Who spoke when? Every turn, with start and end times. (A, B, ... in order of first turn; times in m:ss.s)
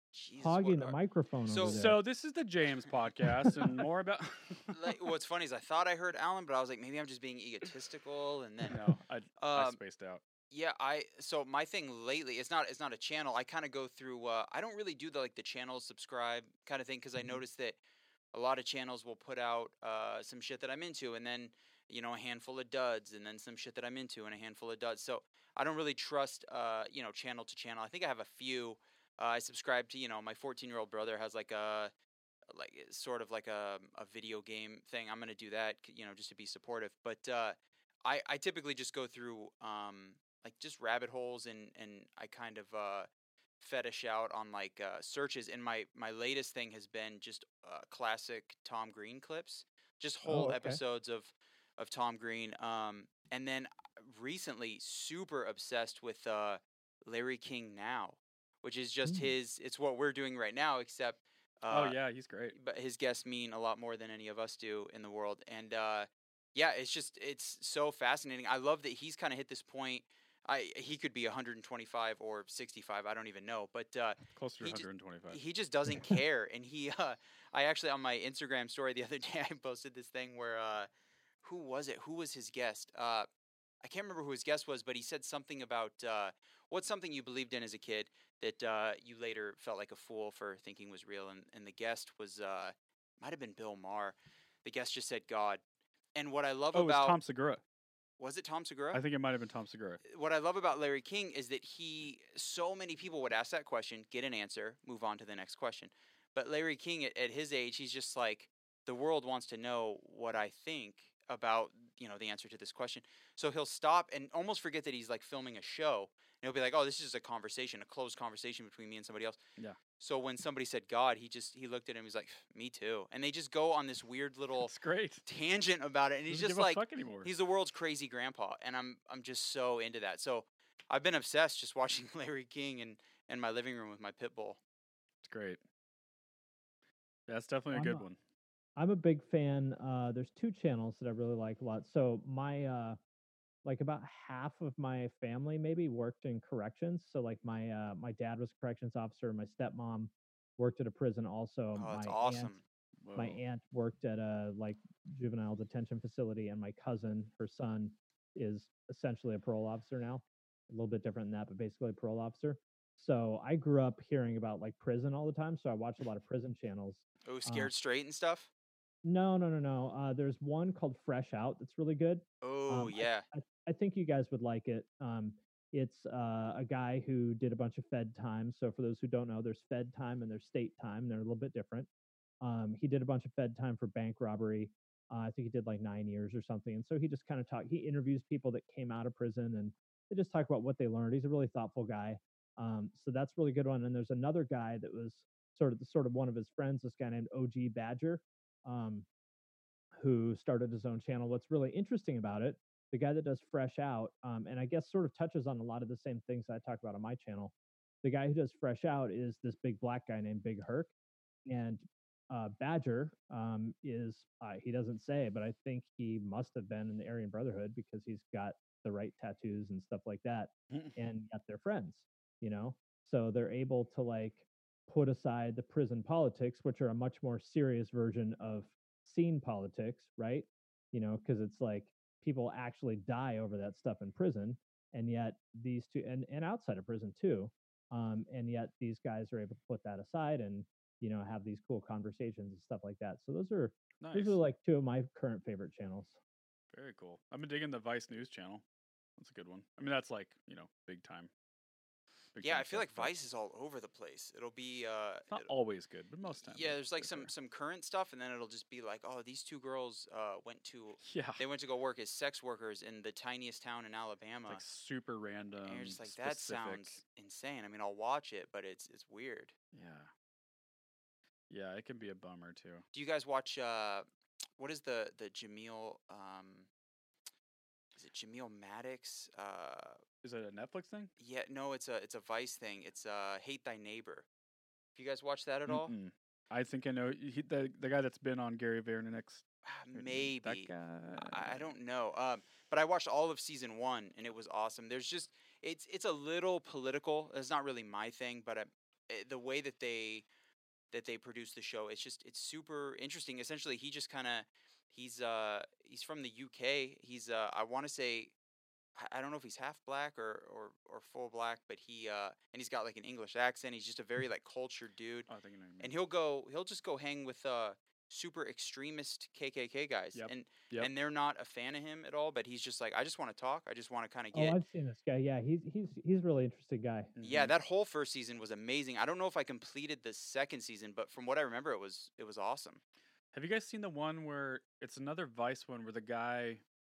0:00.1-0:01.0 A
0:00.4-0:02.0 B
0:01.5-0:01.8 A
0:01.6-0:05.0 C
0:04.7-0:08.8 A
0:08.6-0:10.2 C
0:09.4-0:09.8 A
0:10.5-0:17.8 A
0:18.3-0:31.9 A
0:32.5-0:43.1 A
0:43.6-1:02.0 A
0:50.2-0:50.8 B
0:59.0-0:59.3 B
1:01.7-1:02.5 C
1:02.5-1:20.9 A
1:14.3-1:15.4 C
1:21.4-1:23.3 A
1:23.8-1:35.6 A
1:36.1-1:37.2 A
1:36.7-1:37.6 C
1:38.2-1:39.0 A
1:38.9-1:40.0 C
1:40.1-1:59.4 A
2:00.0-2:04.7 A
2:04.6-2:05.2 C
2:05.2-2:14.6 A
2:06.3-2:07.3 C
2:15.2-2:15.6 C
2:17.3-2:18.2 C
2:17.7-2:18.0 B
2:18.8-2:23.0 B
2:23.6-2:32.5 B
2:31.8-2:32.6 A
2:33.0-2:33.4 C
2:33.1-2:47.7 B
2:47.2-2:48.5 A
2:49.0-3:01.9 B
2:52.4-2:53.2 A
3:02.4-3:19.0 B
3:20.0-3:27.5 B
3:28.0-3:30.9 B
3:31.4-4:06.2 B
3:40.7-3:41.0 C
4:04.0-4:04.4 C
4:06.7-4:08.6 C
4:09.2-4:11.3 C
4:12.3-4:13.1 C
4:12.4-4:15.5 A
4:15.3-4:17.3 C
4:16.2-4:24.6 A
4:21.0-4:21.4 C
4:24.5-4:27.0 C
4:25.6-4:29.5 A
4:29.7-4:30.1 C
4:31.5-4:32.8 C
4:32.9-4:34.0 A
4:34.6-4:36.7 A
4:38.0-4:40.0 A
4:40.2-4:41.1 C
4:41.2-4:44.2 A
4:44.9-4:45.9 A
4:45.7-4:51.7 C
4:49.6-5:00.2 A
5:00.9-5:08.3 A
5:09.0-5:15.3 A
5:15.3-5:15.9 C
5:15.8-5:24.6 A
5:20.1-5:20.9 C
5:24.3-5:27.1 B
5:27.2-5:27.5 C
5:27.2-5:32.8 A
5:33.3-5:36.6 C